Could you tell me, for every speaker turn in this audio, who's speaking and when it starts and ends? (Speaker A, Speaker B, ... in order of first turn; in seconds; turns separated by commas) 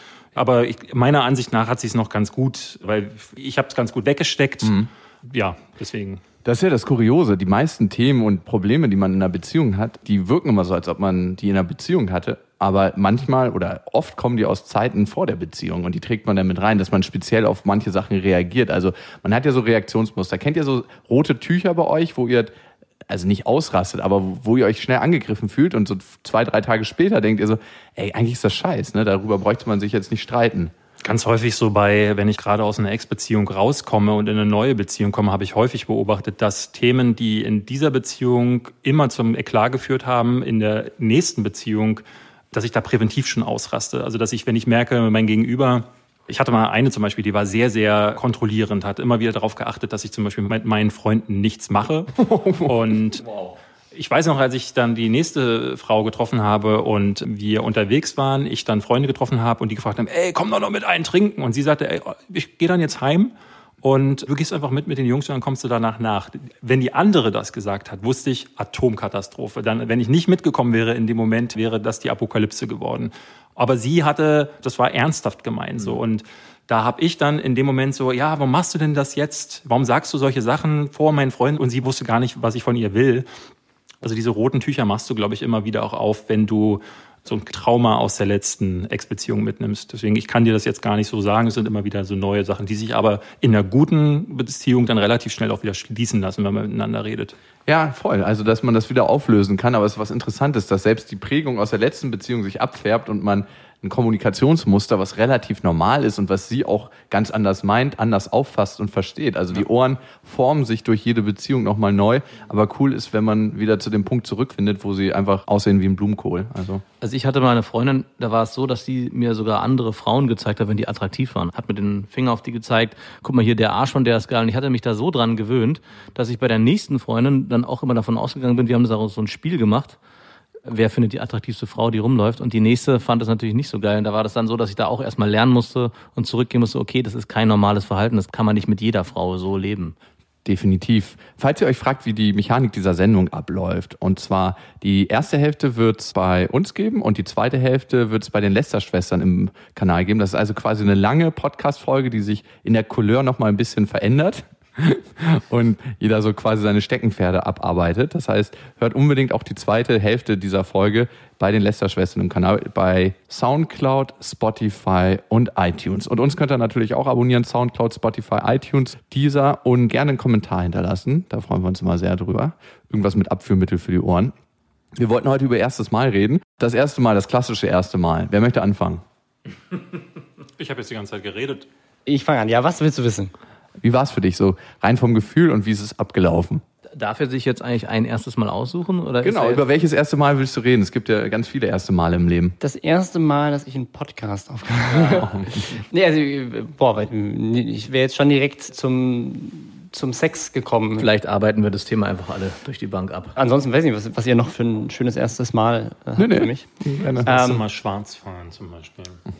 Speaker A: 0.3-6.2, Speaker B: 4.6-4.9, Speaker B: 6.5-22.5, Speaker B: 23.1-30.7, Speaker A: 31.0-53.2, Speaker B: 52.2-53.6, Speaker A: 53.9-83.3, Speaker A: 84.0-97.4, Speaker B: 97.7-116.8, Speaker C: 117.0-130.0, Speaker C: 130.7-139.9, Speaker B: 140.4-174.3, Speaker B: 175.0-179.0, Speaker A: 180.6-181.7, Speaker D: 182.1-183.3, Speaker B: 183.8-186.6, Speaker C: 187.0-189.7, Speaker B: 189.2-192.6, Speaker D: 192.6-201.1, Speaker B: 195.1-195.5, Speaker C: 201.0-203.4, Speaker D: 203.4-206.7, Speaker B: 206.2-207.3, Speaker A: 207.0-209.2, Speaker D: 207.2-207.6